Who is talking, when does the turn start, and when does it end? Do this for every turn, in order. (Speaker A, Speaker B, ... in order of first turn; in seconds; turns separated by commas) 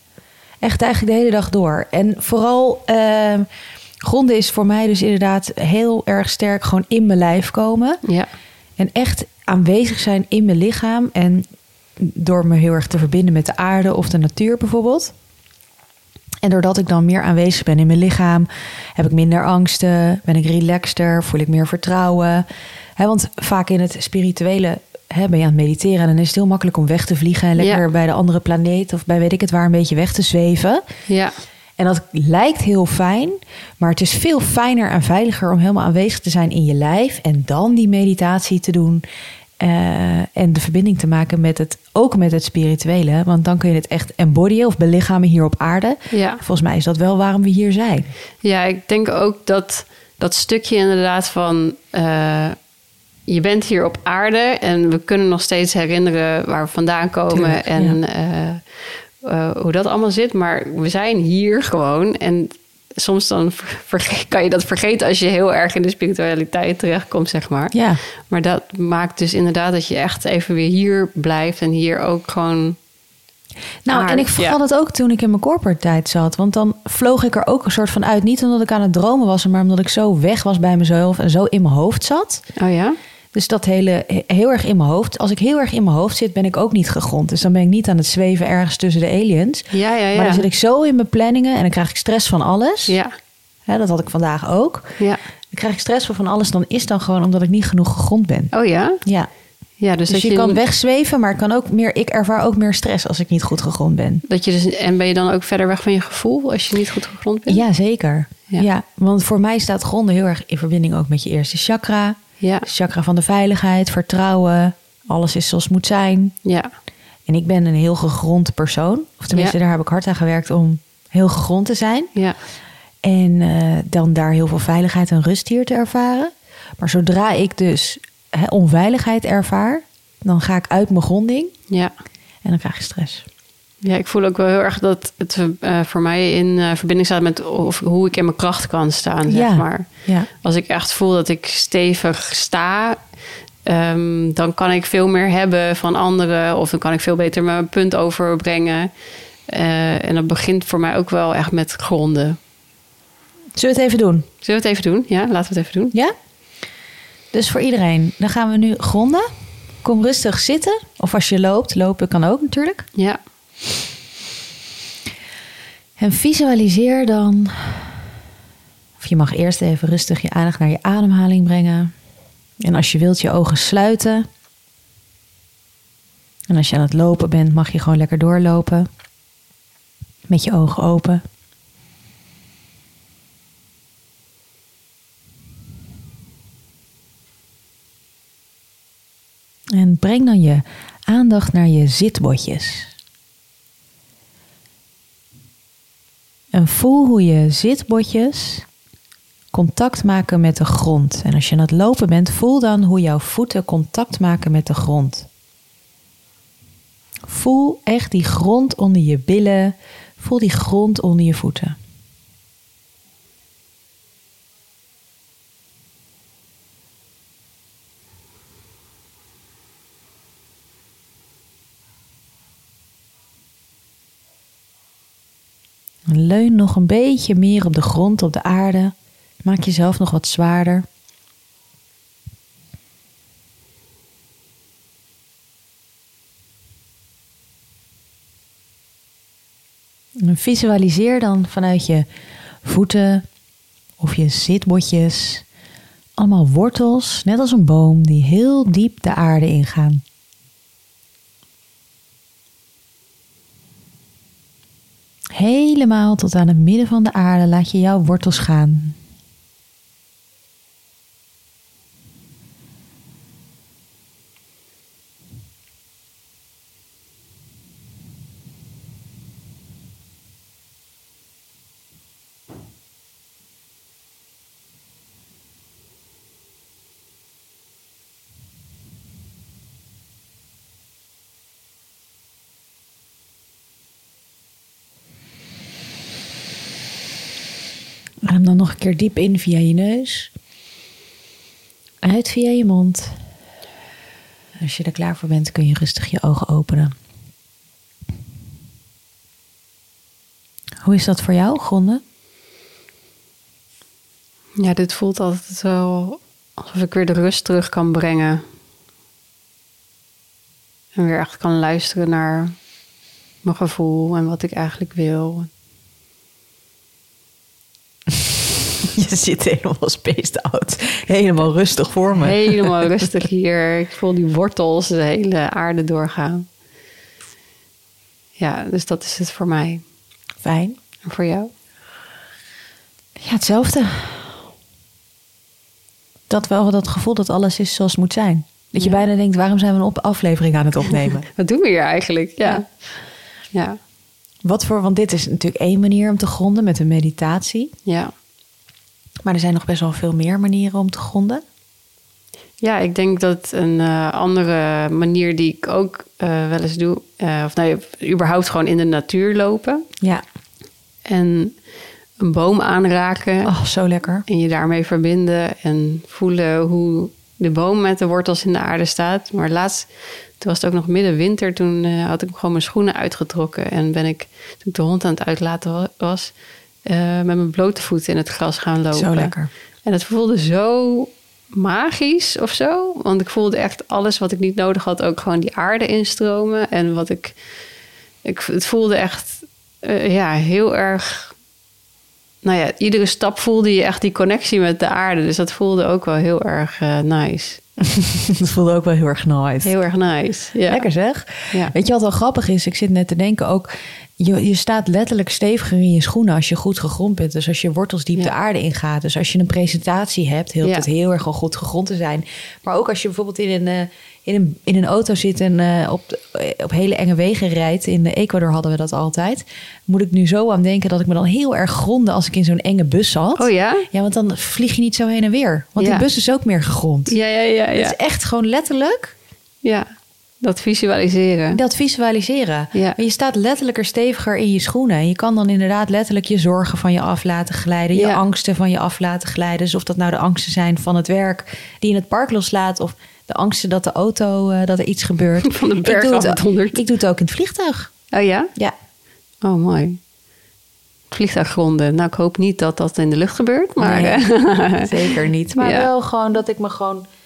Speaker A: 0.6-3.5, Speaker A: 4.0-8.0, Speaker A: 8.8-11.4, Speaker A: 12.0-15.1, Speaker A: 16.4-22.4, Speaker A: 23.0-30.8, Speaker B: 27.6-27.8, Speaker B: 31.1-31.4, Speaker A: 31.8-39.0, Speaker A: 39.6-48.1, Speaker B: 46.1-46.4, Speaker B: 48.4-52.6, Speaker B: 53.3-72.8, Speaker A: 57.3-58.0, Speaker A: 67.7-68.0, Speaker A: 73.8-82.4, Speaker B: 73.9-74.6, Speaker B: 82.6-83.0, Speaker A: 83.3-93.0, Speaker B: 89.7-90.5, Speaker B: 92.9-93.1, Speaker A: 93.7-95.0, Speaker A: 95.5-98.5, Speaker B: 98.5-99.0, Speaker A: 99.0-99.3, Speaker B: 99.8-100.6, Speaker A: 100.1-104.2, Speaker B: 104.3-107.6, Speaker A: 107.5-116.4, Speaker B: 112.4-112.7, Speaker B: 116.4-116.7, Speaker A: 117.3-122.1, Speaker A: 123.0-131.5, Speaker A: 132.4-133.2, Speaker B: 133.8-143.1, Speaker A: 139.3-140.3, Speaker B: 143.7-148.9, Speaker B: 149.5-152.4, Speaker A: 153.6-154.3, Speaker B: 154.4-155.9, Speaker A: 157.3-159.3, Speaker A: 159.8-162.9, Speaker A: 166.0-168.0, Speaker A: 169.0-171.9, Speaker A: 172.6-174.3, Speaker A: 176.5-178.9, Speaker A: 180.3-181.2, Speaker A: 189.7-192.9, Speaker A: 196.5-198.7, Speaker A: 199.5-205.3, Speaker A: 207.3-211.8, Speaker A: 226.1-230.9, Speaker A: 240.2-242.1, Speaker A: 242.6-243.2, Speaker A: 244.0-245.4, Speaker A: 246.2-250.0, Speaker A: 255.3-259.0, Speaker A: 288.2-290.3, Speaker A: 292.0-293.2, Speaker A: 294.6-296.9, Speaker A: 300.8-302.0, Speaker B: 304.6-308.4, Speaker B: 310.9-312.6, Speaker B: 313.4-315.5, Speaker A: 318.1-323.1, Speaker B: 322.1-326.5, Speaker B: 328.4-329.8, Speaker A: 330.4-330.8, Speaker B: 331.1-331.5, Speaker A: 333.2-334.4, Speaker A: 336.3-341.3, Speaker B: 341.4-342.6, Speaker B: 343.5-343.8, Speaker A: 344.4-347.7, Speaker B: 347.9-348.1, Speaker A: 349.2-351.4, Speaker B: 352.6-359.9, Speaker B: 361.1-361.6, Speaker B: 362.2-363.5, Speaker A: 363.4-364.2, Speaker B: 364.3-376.3, Speaker B: 376.9-387.4, Speaker A: 378.9-379.5, Speaker B: 388.2-391.4, Speaker B: 392.4-397.6, Speaker A: 397.8-399.8, Speaker B: 399.6-400.9, Speaker A: 400.7-427.1, Speaker B: 423.4-423.9, Speaker B: 425.8-426.1, Speaker B: 427.1-428.0, Speaker A: 427.7-429.1, Speaker B: 430.4-431.6, Speaker A: 431.5-447.9, Speaker B: 437.9-438.2, Speaker B: 445.4-446.8, Speaker B: 448.1-448.5, Speaker B: 449.4-450.0, Speaker B: 451.1-455.9, Speaker A: 453.8-457.0